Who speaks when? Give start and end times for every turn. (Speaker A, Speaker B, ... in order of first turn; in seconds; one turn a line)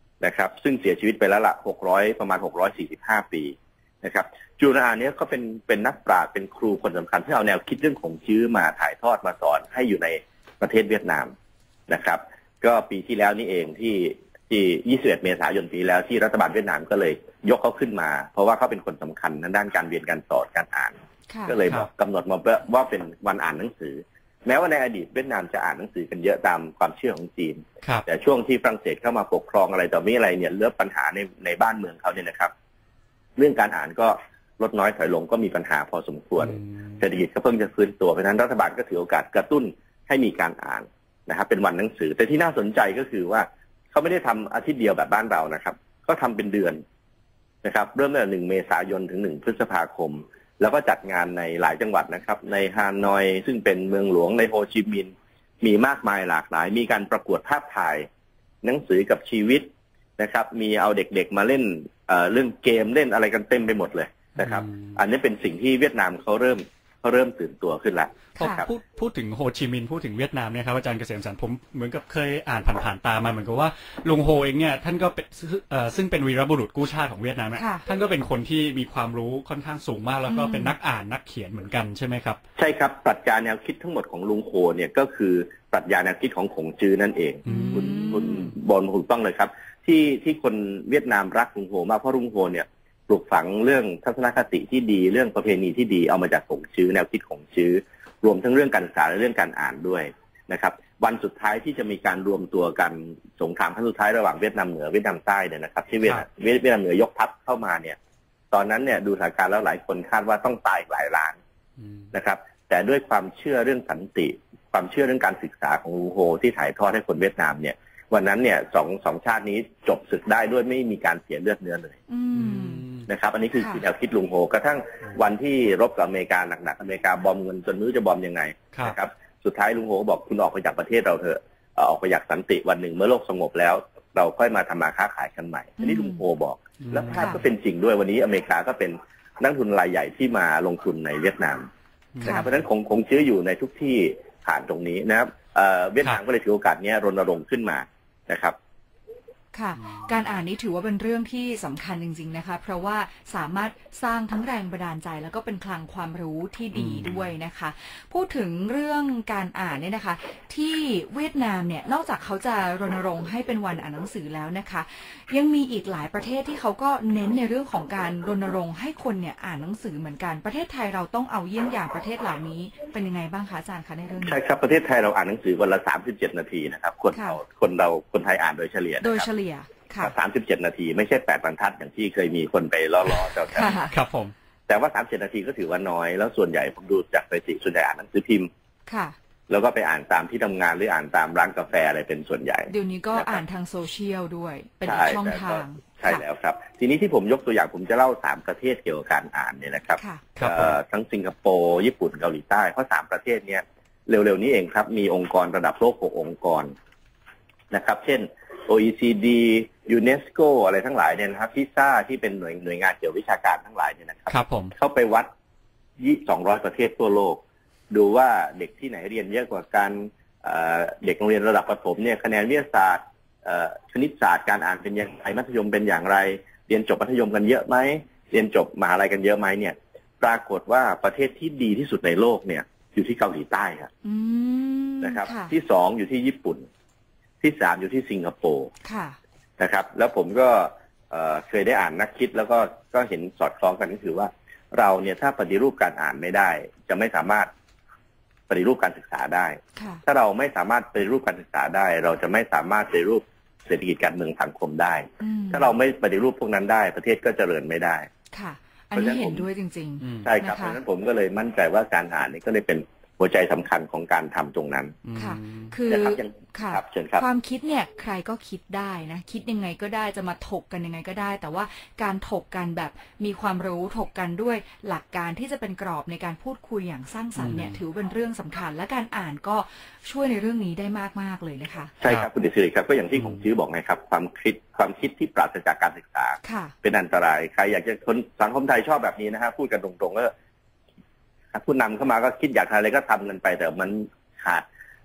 Speaker A: 0.2-11.3
Speaker A: 11.9-21.0
Speaker B: 21.3-21.6
Speaker A: 21.5-32.5
Speaker A: 33.4-46.8
Speaker A: 47.6-58.1
Speaker A: 58.6-68.7
Speaker C: 64.4-64.9
Speaker C: 68.4-82.4
Speaker B: 68.4-68.7
Speaker B: 77.6-77.9
Speaker B: 80.3-80.7
Speaker A: 82.6-108.0
Speaker C: 87.5-88.5
Speaker B: 87.5-88.5
Speaker A: 108.5-111.4
Speaker C: 111.8-112.1
Speaker A: 112.1-122.0
Speaker B: 122.1-122.9
Speaker C: 122.4-123.1
Speaker A: 123.1-141.7
Speaker B: 123.6-123.8
Speaker B: 135.8-136.2
Speaker C: 136.8-137.4
Speaker C: 142.2-142.5
Speaker A: 142.2-148.6
Speaker B: 149.5-174.4
Speaker C: 149.8-150.1
Speaker C: 156.8-157.3
Speaker A: 174.2-179.3
Speaker B: 177.1-177.4
Speaker B: 179.0-180.1
Speaker A: 180.0-183.8
Speaker B: 183.5-183.9
Speaker C: 183.7-184.3
Speaker A: 184.7-188.5
Speaker B: 188.9-189.2
Speaker A: 189.5-193.4
Speaker B: 192.7-196.2
Speaker A: 194.8-206.7
Speaker B: 200.0-200.2
Speaker C: 200.4-200.8
Speaker A: 207.7-215.3
Speaker C: 214.3-214.7
Speaker A: 216.0-233.9
Speaker B: 234.0-235.5
Speaker A: 235.0-236.7
Speaker A: 237.4-238.7
Speaker B: 238.8-239.2
Speaker A: 239.6-247.5
Speaker A: 248.5-258.1
Speaker B: 249.8-250.0
Speaker B: 255.2-255.7
Speaker B: 258.3-260.8
Speaker A: 258.9-259.5
Speaker C: 260.0-260.3
Speaker A: 260.2-265.0
Speaker C: 265.0-265.7
Speaker B: 265.2-281.9
Speaker A: 265.9-267.2
Speaker C: 277.4-277.8
Speaker A: 282.0-290.3
Speaker B: 286.4-286.7
Speaker A: 291.5-294.6